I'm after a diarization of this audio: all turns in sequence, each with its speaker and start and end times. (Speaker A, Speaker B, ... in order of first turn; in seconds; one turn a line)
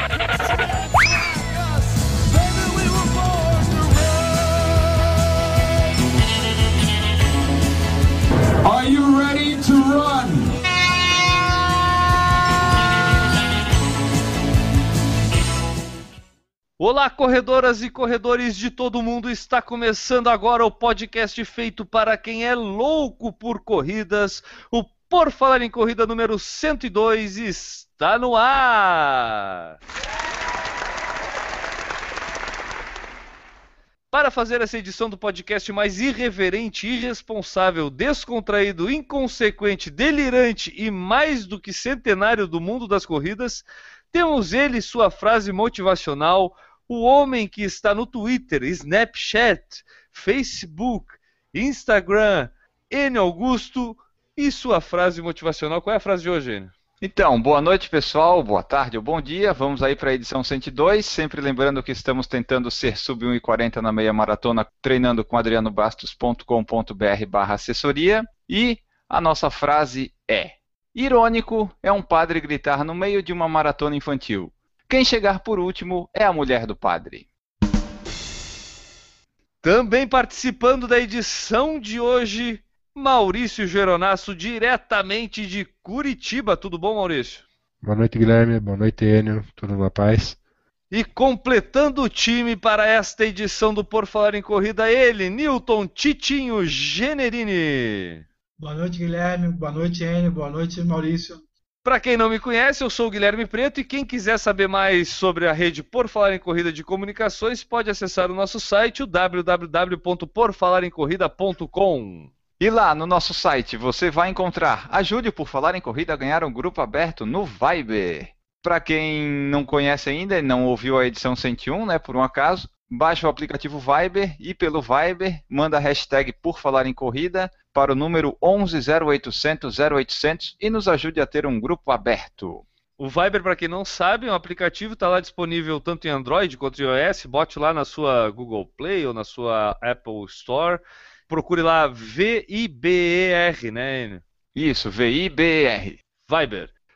Speaker A: 2.3-4.5
Speaker A: 8.6-10.5
Speaker B: 16.8-29.7
Speaker B: 34.1-56.7
Speaker C: 57.0-77.3
Speaker B: 79.6-87.5
Speaker D: 87.8-90.4
Speaker B: 90.9-98.2
Speaker E: 98.6-101.4
Speaker B: 101.8-112.3
Speaker C: 112.6-132.6
Speaker B: 133.0-144.2
Speaker C: 144.5-146.0
Speaker B: 146.3-146.7